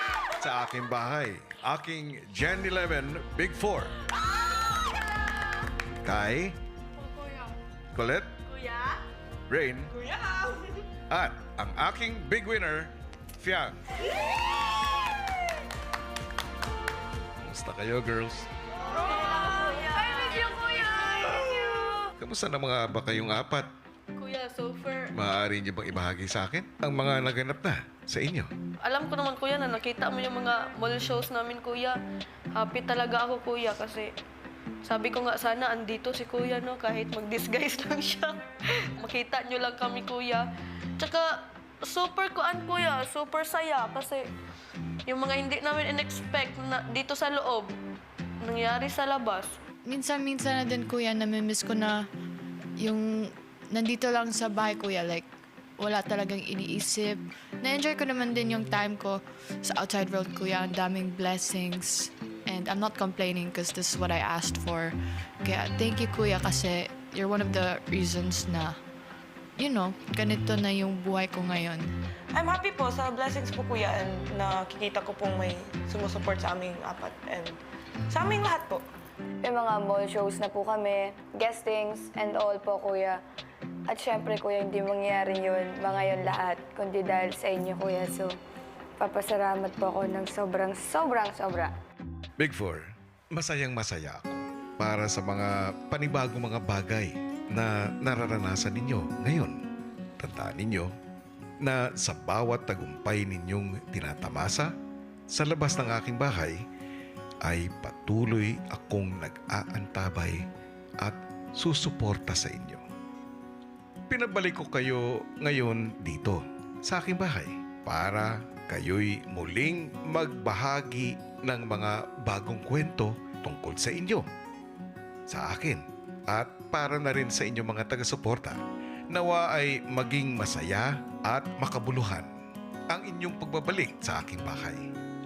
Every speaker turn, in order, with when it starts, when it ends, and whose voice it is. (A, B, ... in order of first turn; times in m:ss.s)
0:00.3-0:03.9 A
0:06.0-0:06.6 A
0:07.1-0:07.4 B
0:07.9-0:08.3 A
0:08.5-0:09.0 B
0:09.5-0:09.9 A
0:10.0-0:10.7 C
0:11.1-0:13.7 A
0:17.4-0:18.5 A
0:18.9-0:22.1 B
0:22.2-0:23.7 A
0:24.1-0:25.1 B
0:25.1-0:28.5 A
0:28.8-0:32.0 B
0:32.5-0:34.1 B
0:34.8-0:44.3 B
0:45.1-0:47.8 B
0:48.4-0:49.6 B
0:49.8-0:52.1 D
0:52.8-0:55.3 D
0:55.8-1:08.8 D
1:09.6-1:11.9 D
1:12.3-1:18.8 C
1:19.4-1:23.2 E
1:23.9-1:28.4 E
1:29.0-1:31.7 E
1:32.4-1:39.6 A
1:40.2-1:40.9 A
1:41.6-1:44.7 A
1:45.3-1:46.6 A
1:47.4-1:50.4 A
1:51.0-1:52.9 A
1:54.1-2:04.3 A
2:05.3-2:12.3 A
2:12.9-2:14.9 A